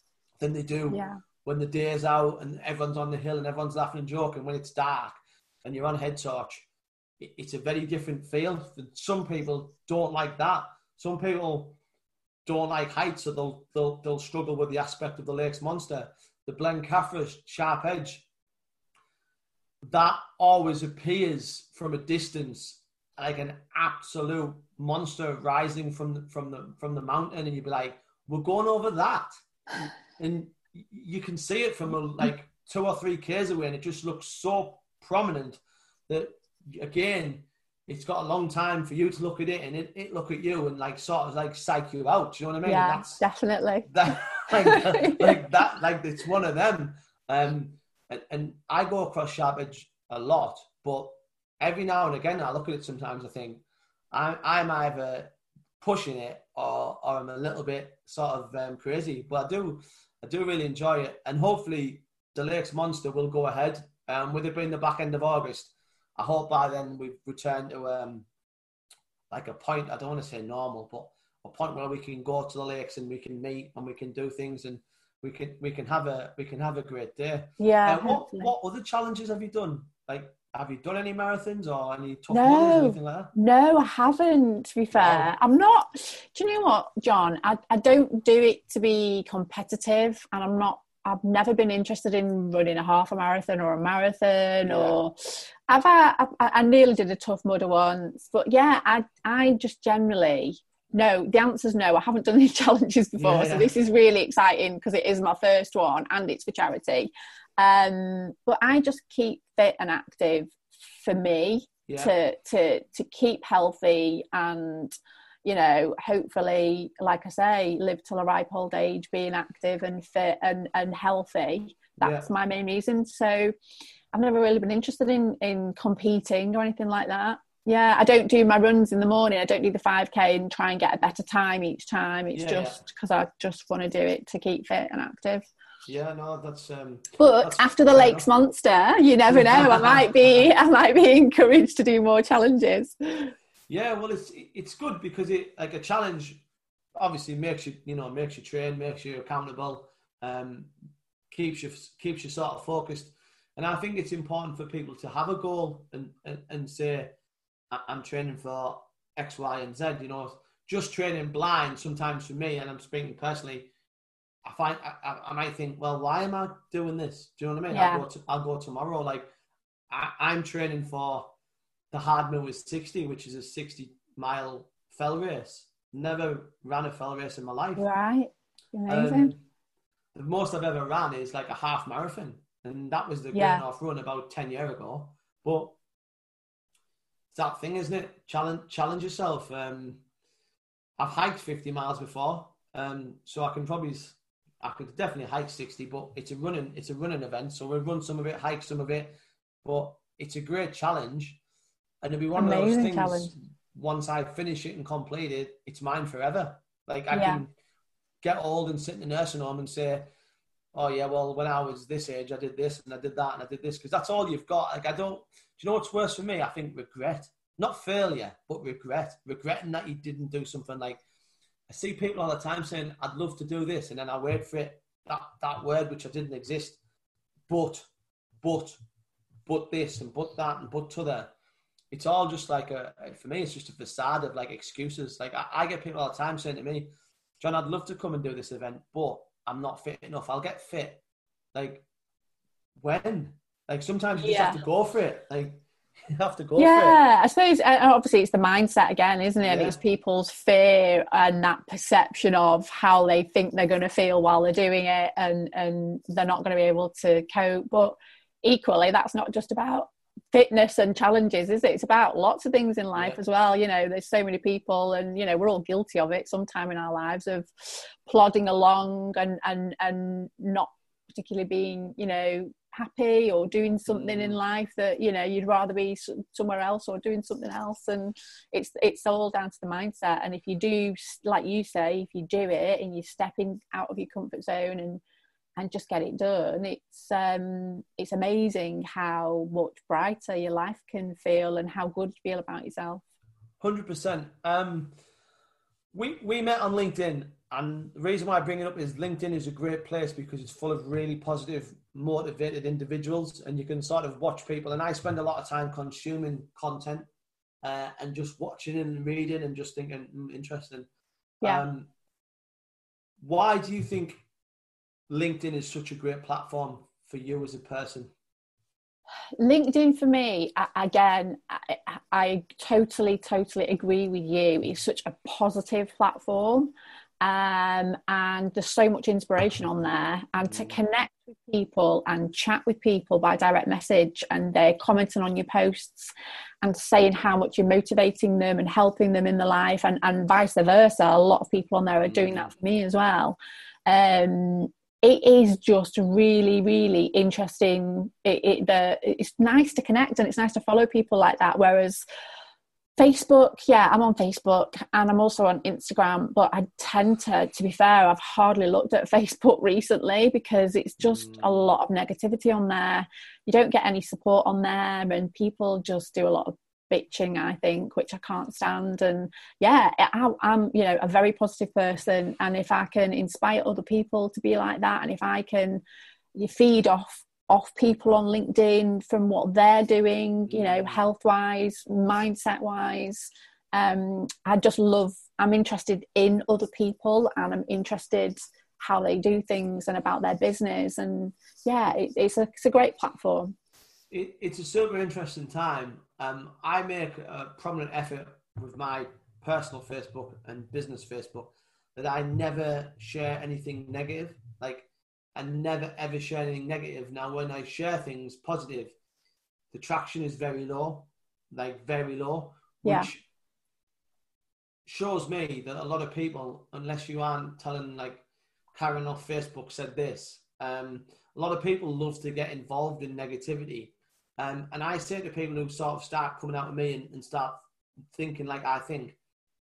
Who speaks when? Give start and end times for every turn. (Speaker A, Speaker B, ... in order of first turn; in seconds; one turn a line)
Speaker A: 0.4-6.7
Speaker B: 0.9-1.2
Speaker A: 7.2-11.8
Speaker A: 12.4-18.2
Speaker A: 19.8-43.2
Speaker B: 42.6-45.5
Speaker A: 43.9-68.2
Speaker A: 69.3-83.3
Speaker B: 77.6-78.5
Speaker B: 82.3-123.5
Speaker A: 84.9-85.3
Speaker A: 94.6-95.0
Speaker A: 103.2-103.7
Speaker A: 111.9-112.1
Speaker A: 122.0-122.3
Speaker B: 124.1-135.5
Speaker A: 132.3-132.8
Speaker A: 135.8-138.3
Speaker B: 137.2-143.3
Speaker A: 139.3-140.1
Speaker A: 143.7-146.4
Speaker A: 147.0-150.7
Speaker A: 151.3-157.1
Speaker A: 157.7-163.7
Speaker A: 164.4-169.3
Speaker B: 167.7-168.0
Speaker A: 169.9-171.3
Speaker A: 171.9-177.8
Speaker B: 177.8-179.3
Speaker A: 178.9-179.4
Speaker A: 180.1-185.7
Speaker B: 183.3-183.6
Speaker A: 187.3-190.0
Speaker A: 191.0-201.4
Speaker A: 202.0-207.5
Speaker B: 202.4-203.3
Speaker B: 207.1-207.4
Speaker A: 208.2-210.1
Speaker A: 210.7-221.0
Speaker A: 221.7-226.8
Speaker A: 227.5-227.9
Speaker A: 228.4-228.8
Speaker A: 229.5-231.3
Speaker A: 231.9-241.0
Speaker A: 241.5-241.8
Speaker A: 242.8-247.0
Speaker B: 244.2-244.6
Speaker B: 246.6-285.0
Speaker A: 249.4-249.8
Speaker A: 273.9-274.4
Speaker B: 285.6-293.0
Speaker A: 293.6-294.9
Speaker A: 295.9-307.1
Speaker A: 307.6-310.9
Speaker A: 311.4-311.9
Speaker A: 313.2-314.2
Speaker A: 315.1-318.1
Speaker B: 319.4-352.0
Speaker A: 330.4-330.8
Speaker A: 342.1-342.5
Speaker B: 353.0-375.8
Speaker A: 361.0-361.7
Speaker B: 376.3-393.5
Speaker A: 380.5-381.0
Speaker A: 394.1-408.9
Speaker A: 409.7-413.2
Speaker B: 412.8-413.1
Speaker A: 414.9-418.2
Speaker A: 418.7-429.1